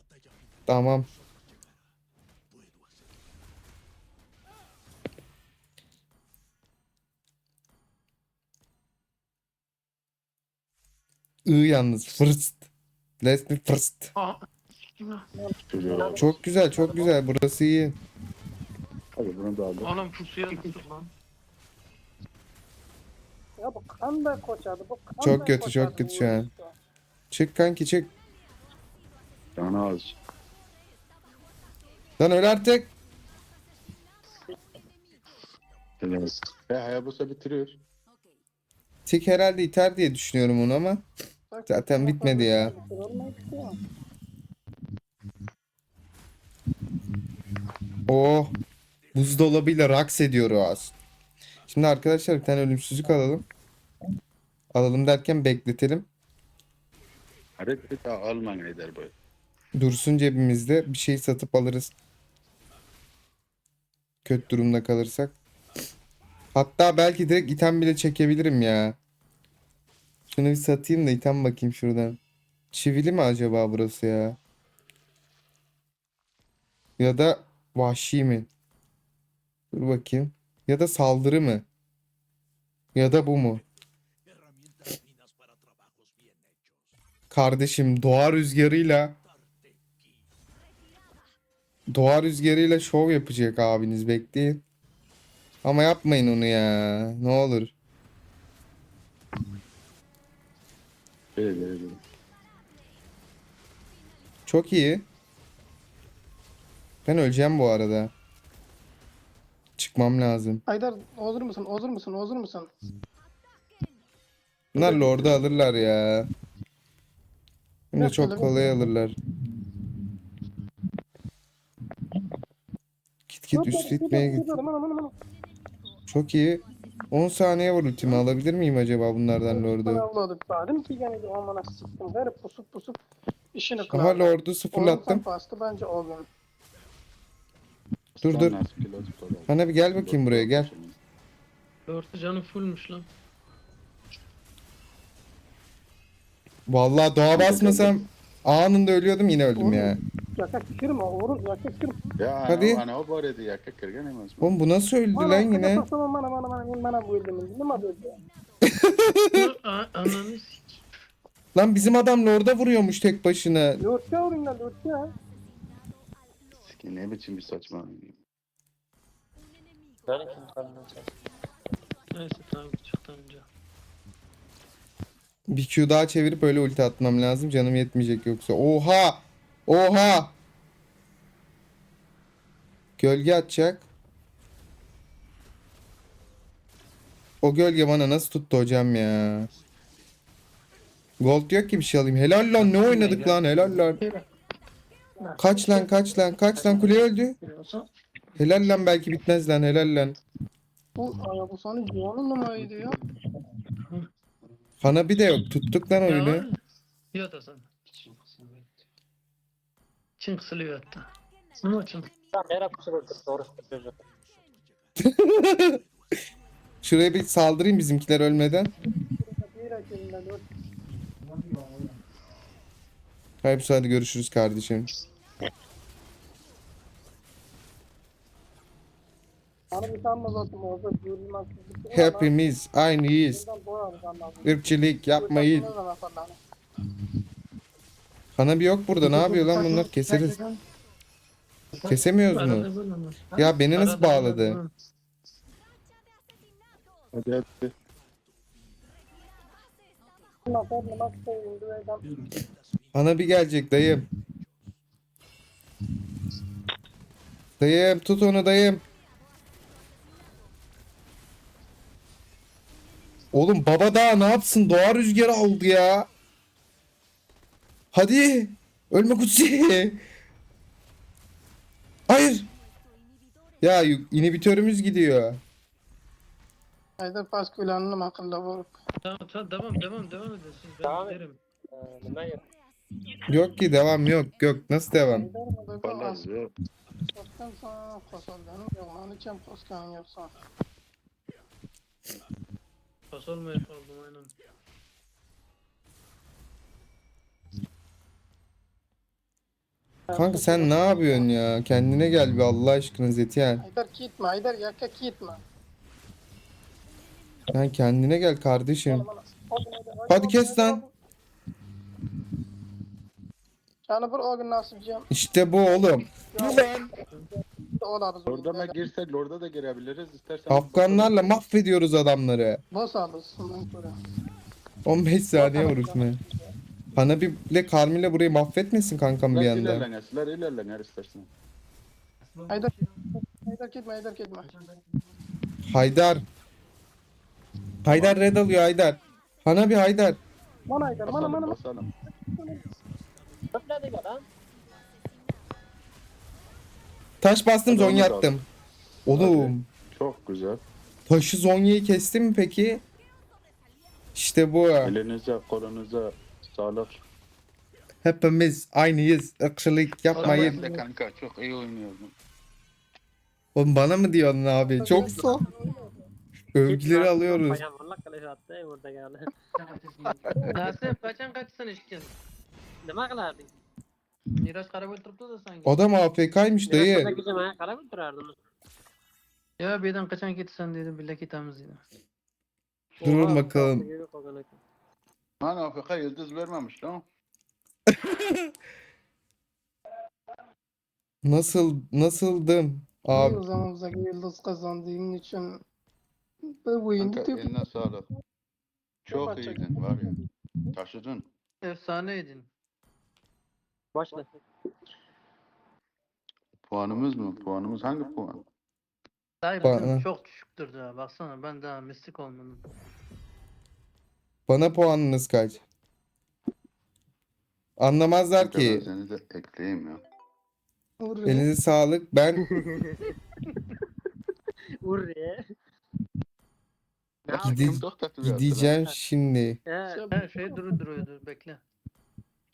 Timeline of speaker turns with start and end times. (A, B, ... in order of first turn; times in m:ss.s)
0:00.7-0:01.1 A
0:11.4-0:12.6 A
0:13.2-0:14.1 A
0:14.1-0:14.4 B
0:14.9-0:15.3 B
0:15.4-0:16.2 C
0:15.7-0:16.3 D
0:15.9-0:17.1 E
0:16.2-0:18.0 A
0:19.2-0:20.0 D
0:19.8-0:21.1 B
0:23.6-0:26.7 C
0:25.2-0:26.5 A
0:27.3-0:28.1 A
0:29.6-0:30.2 D
0:32.2-0:32.9 A
0:36.0-0:37.8 D
0:39.1-0:41.0 A
0:41.5-0:43.8 C
0:41.7-0:42.8 A
0:48.1-0:48.5 A
0:49.1-0:50.9 A
0:51.7-0:53.4 A
0:54.7-0:56.1 A
0:57.6-0:59.1 D
0:59.8-1:01.9 A
1:04.2-1:05.4 A
1:06.5-1:09.0 A
1:10.3-1:12.2 A
1:12.7-1:14.4 A
1:17.0-1:18.5 A
1:19.7-1:21.6 A
1:22.9-1:23.6 A
1:27.3-1:29.2 A
1:31.9-1:34.6 A
1:35.6-1:37.7 A
1:41.4-1:42.0 D
1:44.5-1:45.1 A
1:47.1-1:48.1 A
1:49.8-1:50.6 A
1:50.7-1:52.7 C
1:54.8-1:56.3 A
1:54.8-1:55.6 D
1:57.9-1:59.2 A
1:58.0-1:58.8 C
2:03.3-2:04.5 A
2:03.5-2:05.1 C
2:06.1-2:10.0 A
2:09.5-2:13.0 C
2:13.6-2:16.3 C
2:13.9-2:15.2 A
2:18.1-2:21.0 D
2:18.2-2:18.6 A
2:19.5-2:20.7 A
2:21.9-2:23.1 B
2:26.7-2:30.0 A
2:27.3-2:28.1 D
2:29.6-2:32.0 C
2:32.2-2:34.6 D
2:32.5-2:32.8 A
2:34.4-2:35.8 A
2:35.1-2:38.2 C
2:38.6-2:39.5 A
2:39.3-2:40.8 B
2:41.6-2:43.8 A
2:43.8-2:45.1 C
2:46.6-2:48.2 D
2:50.1-2:51.1 E
2:52.1-2:53.4 B
2:55.5-3:00.4 A
3:03.0-3:03.9 A
3:07.4-3:09.5 A
3:11.2-3:14.0 A
3:12.7-3:14.3 B
3:15.2-3:16.0 B
3:15.4-3:17.4 A
3:16.5-3:17.9 B
3:18.4-3:20.2 A
3:21.0-3:23.0 C
3:24.8-3:26.5 A
3:26.0-3:26.6 B
3:27.1-3:28.7 B
3:30.2-3:31.1 B
3:31.6-3:32.1 B
3:32.3-3:33.9 E
3:35.0-3:35.8 A
3:36.8-3:38.7 A
3:39.2-3:40.4 C
3:41.2-3:42.0 B
3:43.4-3:44.9 A
3:49.7-3:52.3 C
3:51.9-3:53.4 A
3:53.3-3:54.6 C
3:54.4-3:55.7 A
3:55.1-3:56.4 C
3:58.4-4:00.4 A
3:59.0-4:00.6 B
4:01.7-4:04.7 B
4:01.9-4:02.7 A
4:03.4-4:04.6 A
4:07.1-4:07.7 D
4:10.5-4:12.1 C
4:12.9-4:14.1 A
4:17.6-4:18.8 A
4:23.3-4:26.1 A
4:27.9-4:30.0 A
4:32.1-4:32.5 A
4:33.6-4:35.4 A
4:37.0-4:38.7 C
4:39.0-4:41.4 B
4:40.8-4:41.2 E
4:41.7-4:42.4 E
4:43.3-4:45.3 A
4:45.1-4:46.2 C
4:45.8-4:46.5 D
4:47.1-4:50.3 C
4:53.1-4:54.3 B
5:00.1-5:01.0 C
5:00.2-5:03.6 A
5:03.6-5:05.4 C
5:07.5-5:09.1 A
5:08.9-5:10.9 C
5:10.1-5:10.8 A
5:13.9-5:15.1 C
5:15.1-5:16.9 A
5:16.3-5:16.7 C
5:17.4-5:18.8 C
5:18.3-5:21.2 D
5:20.5-5:22.6 A
5:22.7-5:24.0 C
5:24.9-5:26.2 A
5:25.4-5:26.5 C
5:26.9-5:29.9 A
5:29.3-5:31.3 D
5:32.3-5:32.9 B
5:32.5-5:34.5 C
5:34.5-5:34.8 B
5:35.7-5:36.2 A
5:37.8-5:40.2 A
5:37.9-5:38.2 D
5:40.7-5:42.7 C
5:41.0-5:41.9 D
5:43.5-5:44.3 E
5:47.2-5:48.4 A
5:47.7-5:48.4 D
5:49.1-5:49.6 A
5:49.1-5:50.6 D
5:51.1-5:52.8 A
5:54.1-5:54.9 A
5:54.8-5:57.0 D
5:58.0-6:00.6 A
6:00.1-6:00.8 B
6:00.2-6:02.1 D
6:03.6-6:05.4 A
6:04.6-6:06.0 C
6:06.5-6:07.6 A
6:06.7-6:09.3 E
6:09.6-6:12.1 B
6:10.4-6:10.7 C
6:12.8-6:13.5 E
6:14.4-6:15.8 B
6:15.6-6:17.1 A
6:16.7-6:18.4 E
6:19.6-6:21.8 B
6:23.0-6:24.6 E
6:23.0-6:23.8 A
6:25.4-6:27.1 D
6:27.9-6:28.5 A
6:31.2-6:33.4 A
6:33.1-6:35.6 C
6:36.5-6:37.5 C
6:37.0-6:38.1 D
6:39.1-6:40.1 D
6:39.1-6:40.7 C
6:40.7-6:41.3 D
6:41.6-6:42.5 B
6:43.9-6:44.4 E
6:46.7-6:48.4 D
6:49.4-6:52.6 B
6:49.6-6:50.1 A
6:54.5-6:55.6 A
6:57.8-6:58.9 A
6:58.4-7:00.0 D
7:01.0-7:01.5 C
7:01.2-7:02.4 A
7:04.8-7:05.5 E
7:07.3-7:08.8 D
7:07.4-7:09.6 A
7:09.7-7:10.0 E
7:09.9-7:10.8 C
7:10.1-7:11.6 B